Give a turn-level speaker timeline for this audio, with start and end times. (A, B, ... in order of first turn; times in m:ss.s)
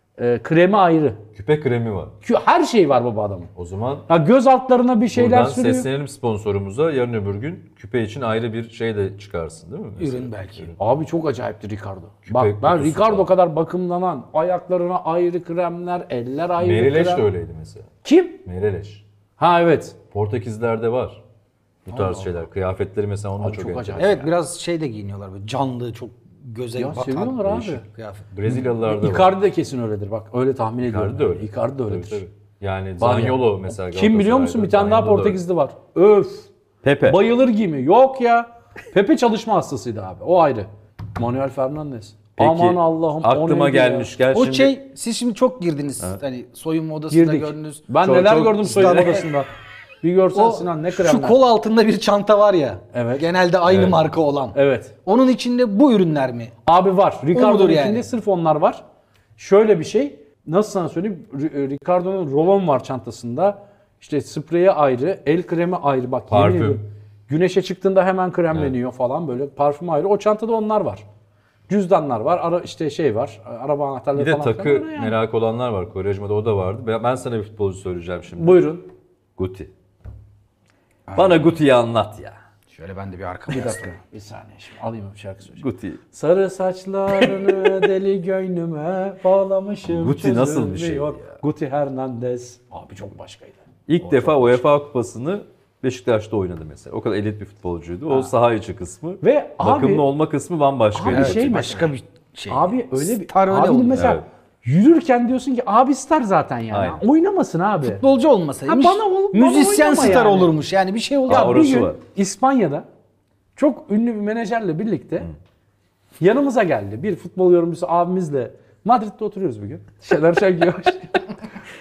0:00.2-0:01.2 A
0:01.4-0:02.2 B
0:02.2-0:03.5 A
0:03.6-0:04.1 B
0:04.1-0:05.9 A
0:05.1-0:10.8 B
0:10.0-0:10.7 C
0:10.8-0:17.3 A
0:12.3-0:13.3 B
0:16.6-0:17.9 B
0:18.0-0:18.4 A
0:18.4-0:19.0 B
0:19.4-0:20.0 A
0:20.1-0:21.2 B
0:21.9-0:24.3 B
0:21.9-0:22.3 C
0:23.4-0:24.3 A
0:24.0-0:28.2 C
0:26.8-0:27.8 A
0:28.3-0:29.3 B
0:28.5-0:32.2 A
0:30.8-0:35.4 B
0:33.0-0:36.5 A
0:36.8-0:37.2 B
0:37.1-0:44.1 A
0:42.4-0:44.7 B
0:44.3-0:48.0 C
0:47.1-0:49.5 A
0:48.0-0:49.2 B
0:48.5-0:49.3 C
0:50.0-0:51.4 A
0:50.3-0:56.5 C
0:52.9-0:53.3 A
0:53.7-0:54.0 B
0:54.5-0:54.9 A
0:56.6-0:58.8 A
0:57.3-0:58.0 C
0:59.4-1:11.0 A
1:06.3-1:06.8 B
1:11.7-1:15.2 A
1:14.2-1:18.7 B
1:18.4-1:18.9 A
1:19.4-1:19.7 B
1:21.1-1:21.5 C
1:21.2-1:22.4 B
1:22.7-1:24.0 C
1:23.5-1:34.6 A
1:25.6-1:26.0 B
1:29.9-1:31.4 B
1:33.9-1:41.8 B
1:39.2-1:40.1 A
1:40.9-1:41.9 A
1:41.1-1:44.2 C
1:42.5-1:48.0 A
1:43.9-1:44.2 B
1:46.7-1:47.0 B
1:47.8-1:51.4 C
1:48.7-1:50.5 A
1:51.3-1:52.0 B
1:51.3-1:52.8 A
1:53.6-1:55.3 A
1:56.2-2:01.2 A